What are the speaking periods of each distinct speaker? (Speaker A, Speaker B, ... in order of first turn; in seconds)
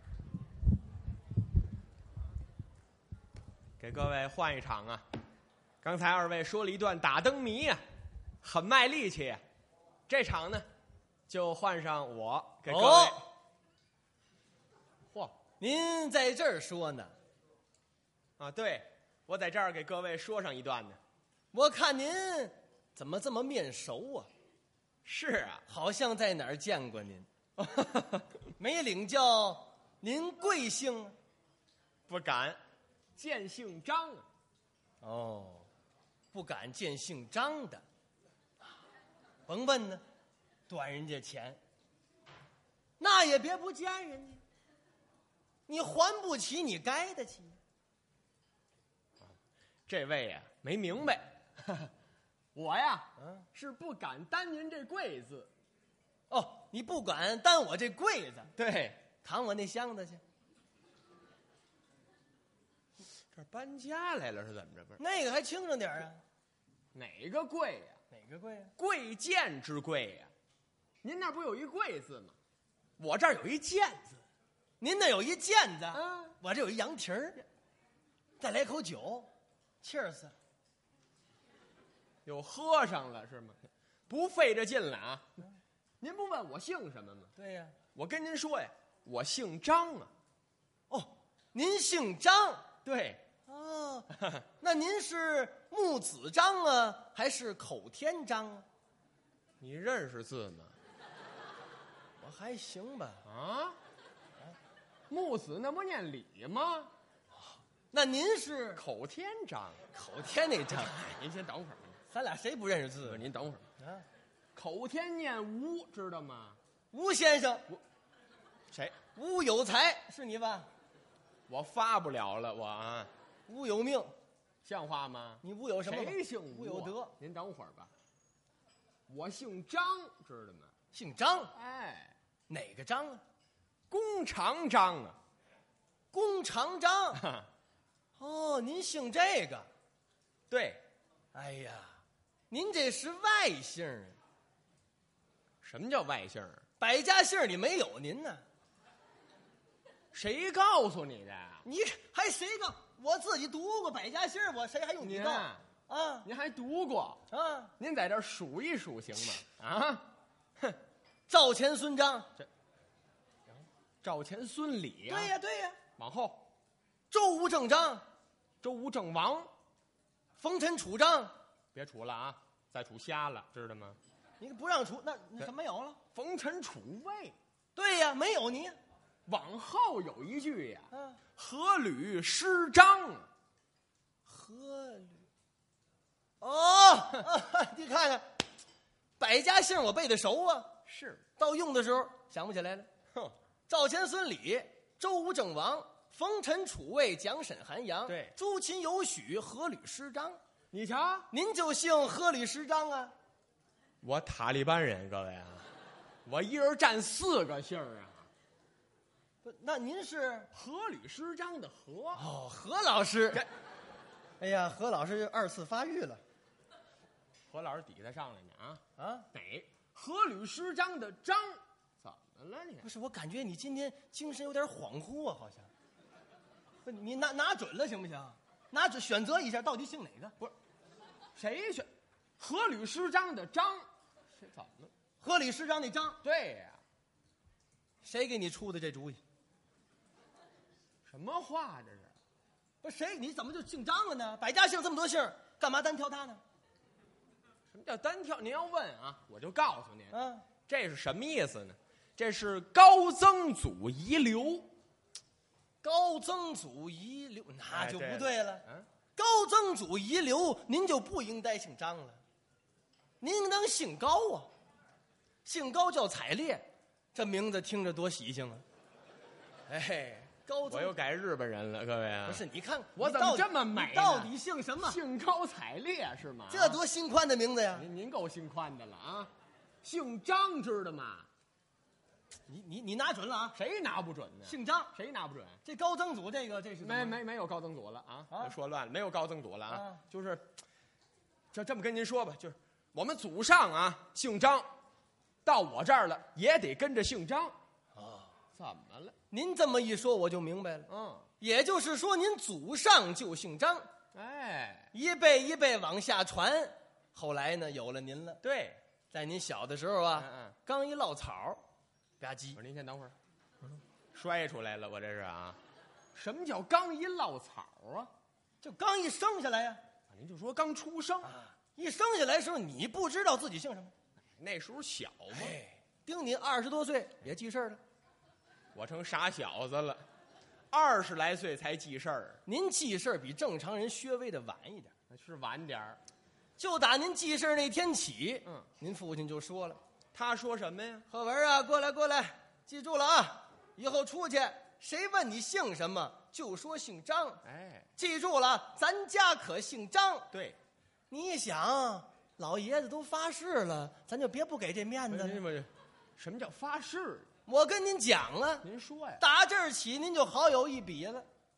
Speaker A: 3.8-5.1, 5.8-7.8, 8.4-9.4, 10.1-10.7, 11.3-13.2, 15.1-15.4, 18.4-21.0, 25.1-25.6, 27.6-28.3, 32.1-32.6, 33.2-34.3, 49.9-51.9, 52.5-55.5, 58.5-59.0, 63.3-65.0, 66.9-68.0, 68.8-70.3, 71.0-72.3, 73.0-74.2, 75.9-76.3, 82.2-85.4, 86.0-87.3, 88.0-90.1, 92.8-93.2, 99.6-100.8, 103.2-103.8, 105.1-106.9, 108.8-109.8, 110.7-112.0, 113.0-113.7, 114.5-116.6, 118.7-119.0, 121.5-123.1, 124.6-127.9, 129.1-130.7, 131.5-132.2, 133.9-135.2, 137.1-137.5, 140.5-140.8, 145.6-146.7, 150.1-151.7, 155.0-155.7, 156.2-157.2, 157.8-160.8, 164.0-165.3, 166.0-166.5, 168.6-169.5, 171.7-174.0, 176.2-177.4, 179.3-183.3, 190.9-191.2, 198.1-198.3, 200.7-201.3, 204.0-205.7, 206.2-208.3, 210.5-212.3, 217.5-222.9, 231.3-234.9, 236.2-236.8, 241.1-242.2, 247.7-250.2, 250.7-254.7, 257.7-258.9, 269.7-272.4, 273.0-276.8, 277.7-279.3, 279.8-281.3, 283.6-285.6, 286.8-290.6, 291.5-294.7, 295.4-297.6, 298.6-299.2, 300.9-301.3, 304.1-304.9, 308.4-308.8, 310.1-310.6, 312.6-313.2, 314.1-315.6, 316.1-318.1, 320.1-321.4, 324.3-325.6, 328.7-330.1, 330.7-332.4, 335.1-336.0, 340.1-341.1, 347.4-347.9, 350.3-350.6, 355.1-357.3, 358.6-359.2
Speaker B: 12.7-13.3, 15.6-17.1, 21.5-24.3, 25.7-27.3, 28.6-31.1, 35.0-35.7, 36.3-37.8, 39.5-40.0, 40.7-41.6, 43.0-44.4, 45.7-47.6, 53.2-53.5, 56.3-58.5, 59.2-60.2, 65.0-66.2, 68.1-68.7, 74.8-77.4, 78.4-79.3, 79.8-80.3, 87.4-87.8, 90.9-92.7, 93.5-98.7, 102.2-103.2, 107.9-108.8, 109.9-110.9, 112.1-113.2, 113.8-114.0, 116.9-117.7, 119.2-120.7, 123.5-124.1, 125.4-127.1, 130.9-131.5, 132.5-133.2, 136.1-137.2, 138.2-139.7, 141.3-144.2, 146.8-148.4, 151.7-156.3, 157.3-157.7, 161.3-162.3, 165.1-165.8, 167.1-168.0, 170.4-171.3, 174.4-176.0, 177.8-178.8, 180.9-181.2, 184.3-185.3, 186.4-188.3, 189.2-190.8, 191.4-192.9, 193.7-200.4, 201.3-203.1, 209.4-210.5, 212.2-213.5, 214.4-216.2, 219.0-219.3, 222.8-225.7, 226.8-230.5, 235.2-236.2, 238.0-239.2, 242.8-246.4, 250.1-250.5, 255.8-262.2, 263.2-264.5, 265.4-268.6, 270.1-270.9, 272.3-275.0, 276.5-277.9, 282.5-283.6, 284.5-284.9, 285.6-287.2, 289.7-290.0, 297.9-298.3, 299.3-300.9, 301.4-303.9, 304.9-308.4, 309.1-311.6, 312.2-312.6, 318.6-319.8, 321.2-323.9, 325.3-327.8, 332.5-334.9, 336.6-339.8, 341.1-347.4, 348.0-350.3, 351.1-355.4, 357.5-358.7, 359.2-361.3